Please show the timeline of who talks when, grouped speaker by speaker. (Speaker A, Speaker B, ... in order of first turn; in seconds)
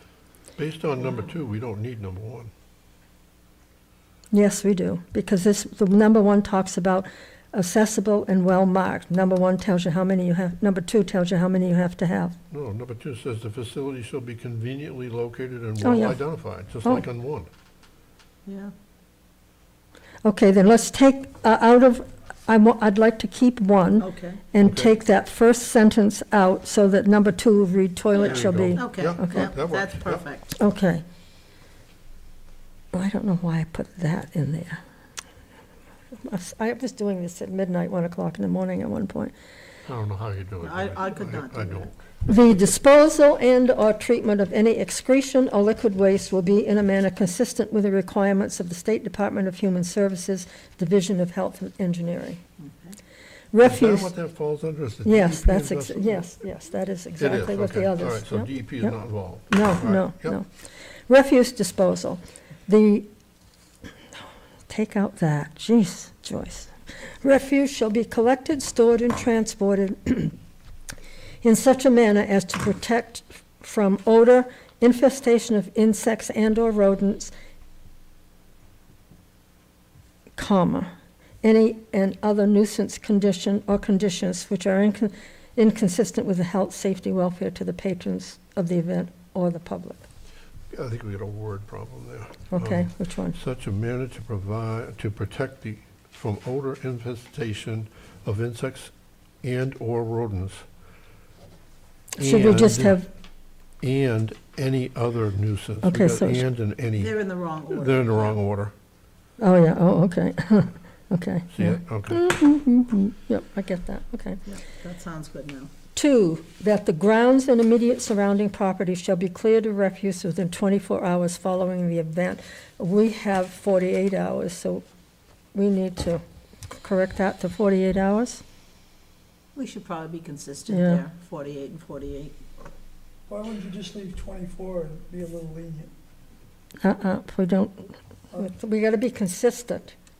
Speaker A: 0.6-2.5, 12.5-17.5, 24.6-24.9, 28.2-30.2, 39.9-42.0, 53.6-56.3, 57.2-60.4, 90.7-100.6, 102.2-103.0, 103.8-107.2, 107.7-108.7, 111.5-112.3
Speaker B: 4.3-12.3, 15.8-16.2, 20.2-29.5, 30.6-31.0, 32.9-34.8, 36.2-39.3, 42.2-52.4, 53.5-54.1, 55.0-59.0, 59.5-60.5, 61.1-63.1, 64.7-70.3, 71.4-77.3, 80.4-80.9, 81.4-90.0, 92.5-93.4, 102.2-103.1, 105.8-106.4, 109.4-114.4, 115.9-124.8, 125.5-126.2, 126.8-128.4, 130.7-131.0, 136.8-139.9
Speaker C: 18.4-18.7, 24.0-24.4, 28.1-30.5, 40.6-41.9, 52.6-53.0, 107.0-108.4, 114.4-115.7, 129.5-132.4
Speaker D: 133.3-135.9